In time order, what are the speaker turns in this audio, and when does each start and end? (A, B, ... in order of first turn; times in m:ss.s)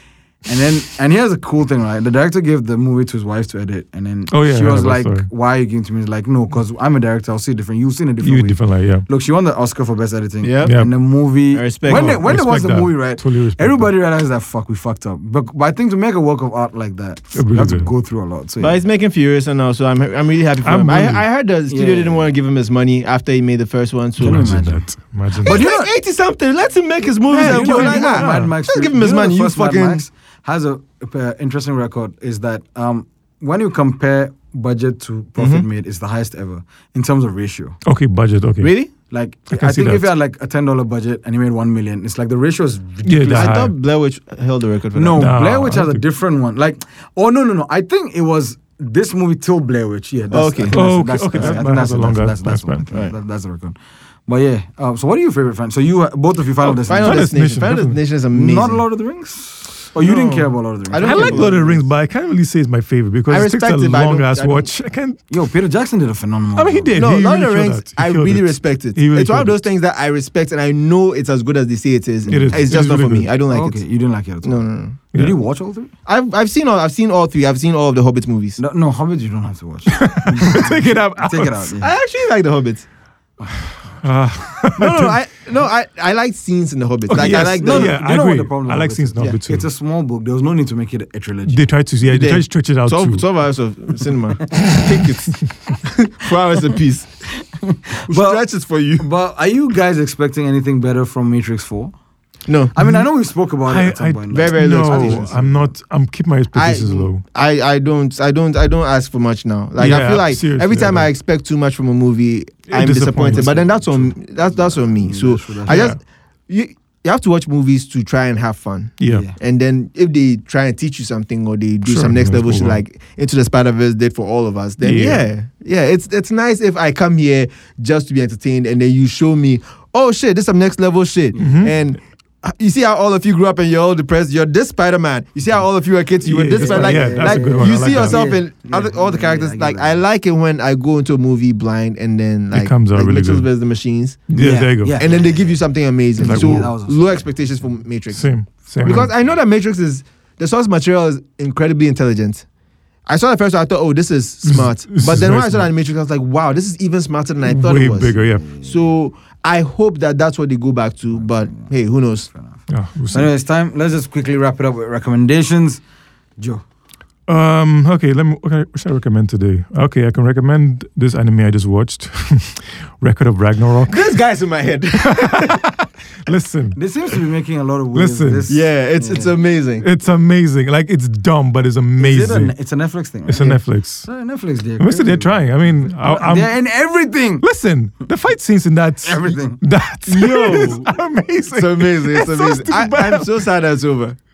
0:00.5-0:18.8 A
0:04.3-0:05.3 B
0:08.2-0:09.1 B
0:10.4-0:10.8 C
0:10.6-0:10.9 B
0:11.5-0:12.3 C
0:11.8-0:13.9 B
0:17.4-0:17.9 B
0:18.6-0:24.6 C
0:20.6-0:21.2 B
0:21.7-0:22.2 A
0:24.2-0:25.6 B
0:24.2-0:24.9 A
0:25.4-0:25.9 A
0:25.4-0:30.0 C
0:27.3-0:37.8 A
0:27.3-0:28.5 B
0:35.4-0:35.7 C
0:37.8-0:38.8 B
0:38.6-0:38.9 C
0:39.1-0:43.6 A
0:39.5-0:40.1 B
0:43.0-0:43.7 B
0:43.3-0:45.3 C
0:44.9-0:53.8 A
0:45.2-0:46.0 B
0:50.3-0:50.8 C
0:50.7-0:52.9 B
0:54.3-0:57.3 A
0:56.6-0:58.8 C
0:57.0-0:58.0 B
0:58.3-1:01.6 A
1:00.0-1:01.8 C
1:01.0-1:05.2 B
1:03.3-1:04.7 C
1:05.3-1:07.0 A
1:06.6-1:09.7 B
1:06.9-1:13.8 C
1:12.3-1:13.3 B
1:12.3-1:12.6 A
1:13.5-1:15.9 A
1:14.4-1:15.0 C
1:16.1-1:18.6 C
1:18.6-1:21.9 A
1:19.9-1:21.6 B
1:21.8-1:22.9 C
1:23.6-1:25.2 B
1:24.7-1:28.0 C
1:27.1-1:29.7 B
1:27.2-1:31.6 A
1:31.5-1:33.3 B
1:32.1-1:37.1 C
1:34.6-1:34.9 B
1:37.4-1:38.4 A
1:38.1-1:39.1 C
1:39.0-1:41.9 A
1:42.5-1:42.7 C
1:42.7-1:45.7 A
1:42.8-1:43.1 B
1:43.6-1:47.2 B
1:44.3-1:45.4 C
1:46.6-2:24.3 C
1:49.8-1:51.1 B
1:52.7-1:53.6 B
1:53.3-1:55.8 A
1:55.7-1:56.0 B
1:59.1-1:59.4 A
2:01.8-2:02.8 B
2:04.8-2:05.3 B
2:11.3-2:11.6 A
2:11.4-2:11.7 B
2:16.2-2:18.2 B
2:16.6-2:20.0 A
2:22.5-2:23.5 B
2:24.3-2:25.1 B
2:24.4-2:25.6 A
2:24.9-2:28.2 C
2:26.2-2:27.2 A
2:26.2-2:26.7 B
2:28.1-2:29.1 B
2:28.8-2:32.4 C
2:33.1-2:42.3 C
2:34.5-2:35.7 B
2:37.4-2:38.5 B
2:38.4-2:38.7 A
2:41.2-2:41.6 A
2:42.7-2:43.3 B
2:43.1-2:45.8 A
2:46.4-2:46.6 A
2:47.3-2:54.1 B
2:53.9-2:55.6 C
2:55.0-2:56.8 B
2:56.8-2:59.3 A
2:57.9-2:58.5 B
2:58.5-2:59.8 C
2:59.8-3:02.6 B
3:02.0-3:07.4 A
3:03.3-3:04.1 B
3:04.8-3:06.6 B
3:07.4-3:13.3 B
3:09.0-3:09.6 A
3:10.1-3:10.9 C
3:11.5-3:14.2 C